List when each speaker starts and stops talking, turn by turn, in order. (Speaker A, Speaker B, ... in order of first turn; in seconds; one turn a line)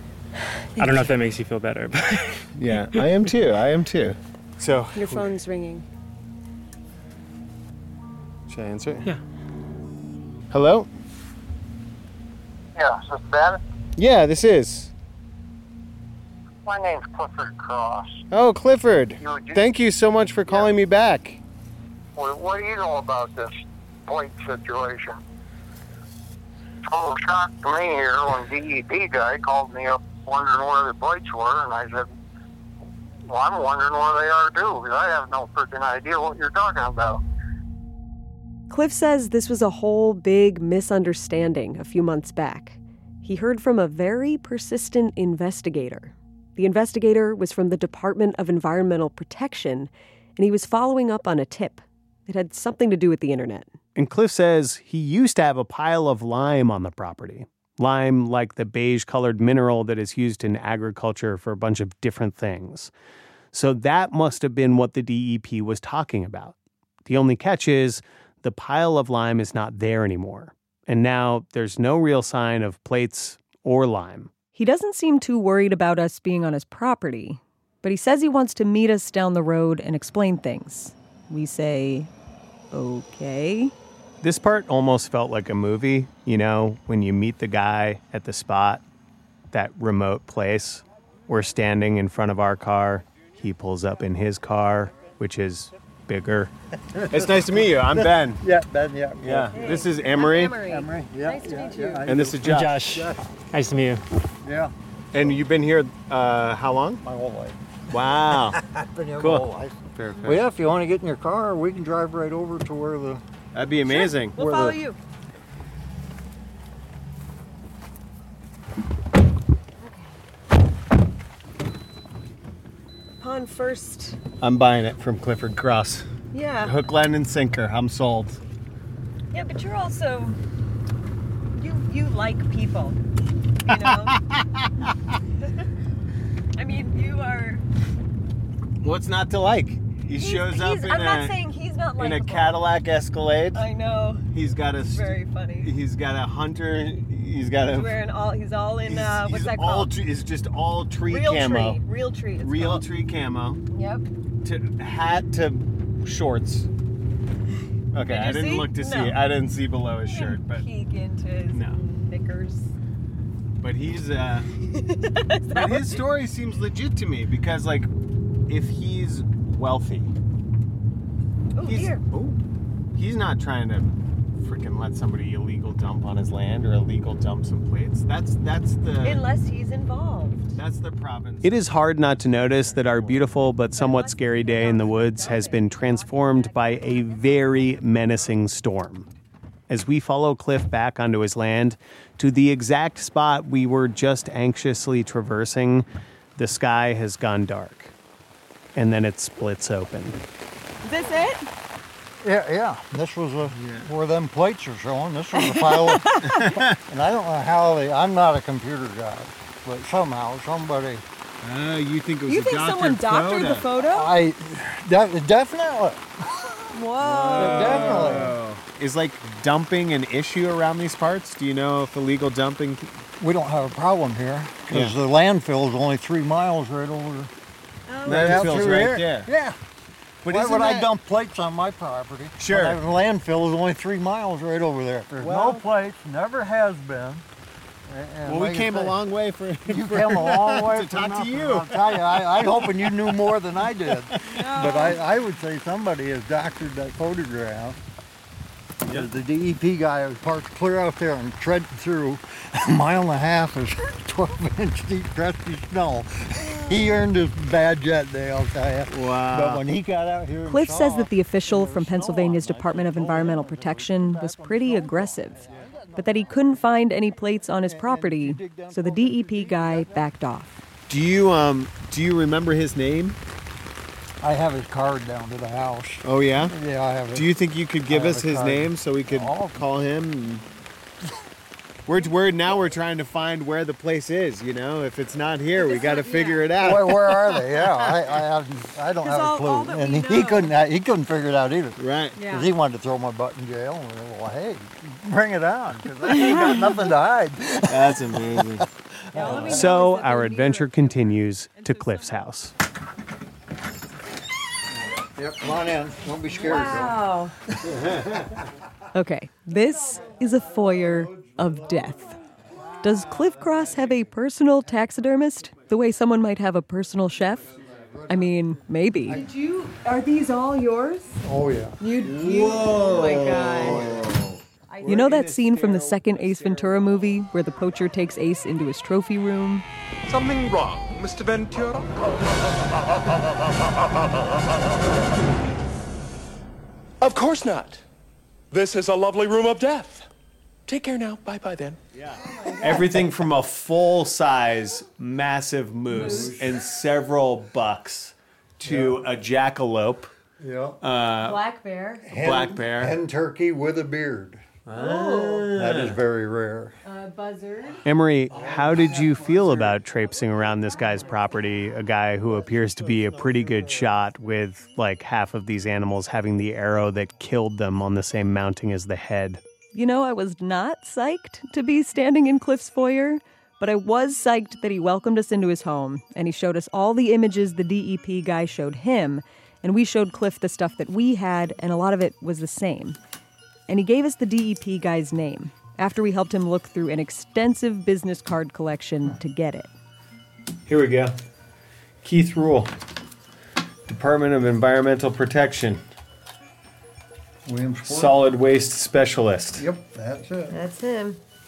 Speaker A: 0.8-2.4
Speaker B: 2.6-5.3
Speaker C: 5.0-5.8
Speaker B: 8.5-9.1
Speaker B: 10.5-10.9
Speaker D: 12.8-13.6
Speaker B: 14.0-14.9
Speaker D: 16.7-18.2
Speaker B: 18.3-21.4
Speaker D: 19.2-19.7
Speaker D: 22.2-25.2
Speaker D: 26.9-32.1
Speaker D: 33.3-37.2
Speaker E: 38.7-49.9
Speaker E: 50.4-53.6
Speaker F: 54.0-62.9
Speaker F: 63.5-74.3
Speaker E: 74.5-82.1
Speaker E: 82.7-83.7
Speaker F: 84.2-88.8
Speaker F: 89.5-96.5
Speaker G: 96.9-99.7
Speaker B: 97.1-98.4
Speaker B: 99.2-100.2
Speaker C: 99.5-102.0
Speaker F: 99.7-100.6
Speaker G: 100.6-103.2
Speaker F: 102.1-102.6
Speaker B: 102.2-102.6
Speaker A: 102.4-104.0
Speaker G: 104.4-104.7
Speaker B: 105.1-107.0
Speaker G: 107.0-107.6
Speaker F: 107.9-108.6
Speaker G: 108.2-113.2
Speaker F: 109.2-109.4
Speaker B: 110.0-110.4
Speaker B: 113.5-114.4
Speaker F: 113.8-114.3
Speaker C: 113.9-115.0
Speaker C: 119.8-120.1
Speaker C: 123.2-124.2
Speaker B: 124.4-126.1
Speaker C: 126.3-126.8
Speaker B: 126.7-128.4
Speaker C: 129.3-130.4
Speaker C: 131.6-133.0
Speaker C: 133.7-134.1
Speaker C: 136.6-137.6
Speaker B: 138.8-141.3
Speaker C: 140.2-142.6
Speaker B: 142.0-143.6
Speaker C: 143.5-145.7
Speaker B: 144.4-145.0
Speaker B: 145.6-147.9
Speaker C: 147.7-149.9
Speaker B: 148.9-151.7
Speaker C: 151.1-152.8
Speaker B: 152.4-153.6
Speaker C: 153.7-154.1
Speaker B: 154.4-156.7
Speaker B: 157.9-160.6
Speaker C: 158.1-159.2
Speaker F: 158.3-159.1
Speaker C: 160.0-162.7
Speaker B: 163.6-164.5
Speaker C: 165.0-166.0
Speaker B: 165.6-167.9
Speaker B: 168.5-170.1
Speaker C: 171.6-172.0
Speaker B: 171.7-172.4
Speaker B: 172.9-179.2
Speaker C: 179.0-180.6
Speaker B: 180.6-183.5
Speaker F: 181.4-189.1
Speaker C: 183.7-187.6
Speaker F: 189.7-195.9
Speaker F: 196.4-197.9
Speaker F: 198.8-200.2
Speaker C: 200.8-201.4
Speaker G: 202.2-211.0
Speaker B: 203.6-203.8
Speaker B: 211.4-213.7
Speaker E: 212.3-214.1
Speaker G: 213.8-216.1
Speaker E: 216.7-218.2
Speaker G: 217.0-218.4
Speaker F: 217.4-218.3
Speaker B: 217.8-222.9
Speaker G: 223.2-227.3
Speaker C: 227.9-228.3
Speaker G: 228.0-229.6
Speaker B: 228.1-229.3
Speaker F: 228.4-228.9
Speaker G: 230.2-237.2
Speaker F: 230.3-230.9
Speaker F: 232.4-232.7
Speaker F: 235.2-235.6
Speaker G: 237.9-239.0
Speaker B: 238.3-239.8
Speaker G: 239.7-247.8
Speaker F: 239.8-240.7
Speaker B: 240.8-241.6
Speaker G: 248.8-266.6
Speaker F: 258.9-259.6
Speaker E: 260.5-265.4
Speaker E: 266.0-270.6
Speaker G: 267.6-270.1
Speaker B: 270.9-271.9
Speaker F: 271.7-273.1
Speaker G: 274.2-277.3
Speaker B: 277.2-280.4
Speaker G: 277.9-279.6
Speaker B: 281.9-286.6
Speaker C: 285.6-286.5
Speaker G: 286.6-299.6
Speaker F: 286.7-287.0
Speaker E: 289.0-289.9
Speaker C: 289.2-290.5
Speaker B: 291.8-292.2
Speaker C: 292.2-292.4
Speaker E: 292.2-292.5
Speaker B: 297.8-298.6
Speaker E: 299.2-300.6
Speaker F: 299.3-302.5
Speaker G: 305.1-307.0
Speaker E: 306.4-307.2
Speaker C: 306.5-307.3
Speaker G: 307.6-308.3
Speaker E: 308.9-312.2
Speaker G: 310.8-311.8
Speaker E: 312.8-317.5
Speaker G: 317.5-318.3
Speaker E: 318.1-319.2
Speaker C: 319.1-321.1
Speaker G: 321.2-321.8
Speaker C: 321.8-323.8
Speaker B: 322.1-324.3
Speaker C: 324.7-325.2
Speaker E: 324.8-329.6
Speaker B: 324.9-326.8
Speaker H: 330.1-332.0
Speaker H: 337.0-337.8
Speaker H: 338.5-340.1
Speaker H: 340.7-341.8
Speaker F: 342.6-350.1
Speaker B: 342.7-344.3
Speaker G: 345.9-346.4
Speaker G: 348.6-349.0
Speaker G: 350.4-350.8
Speaker F: 350.8-351.4
Speaker C: 351.2-352.1
Speaker G: 352.1-354.4
Speaker F: 352.2-352.9
Speaker C: 354.8-355.4
Speaker G: 355.0-356.8
Speaker F: 355.7-356.0
Speaker C: 356.9-357.8
Speaker F: 357.8-369.4
Speaker G: 358.3-359.8
Speaker G: 362.3-363.9
Speaker E: 369.7-383.0
Speaker E: 383.7-389.7
Speaker B: 390.7-391.1
Speaker B: 392.0-392.7
Speaker B: 393.9-395.8
Speaker G: 397.4-398.2
Speaker B: 398.0-399.6
Speaker G: 399.5-400.6
Speaker C: 400.5-401.2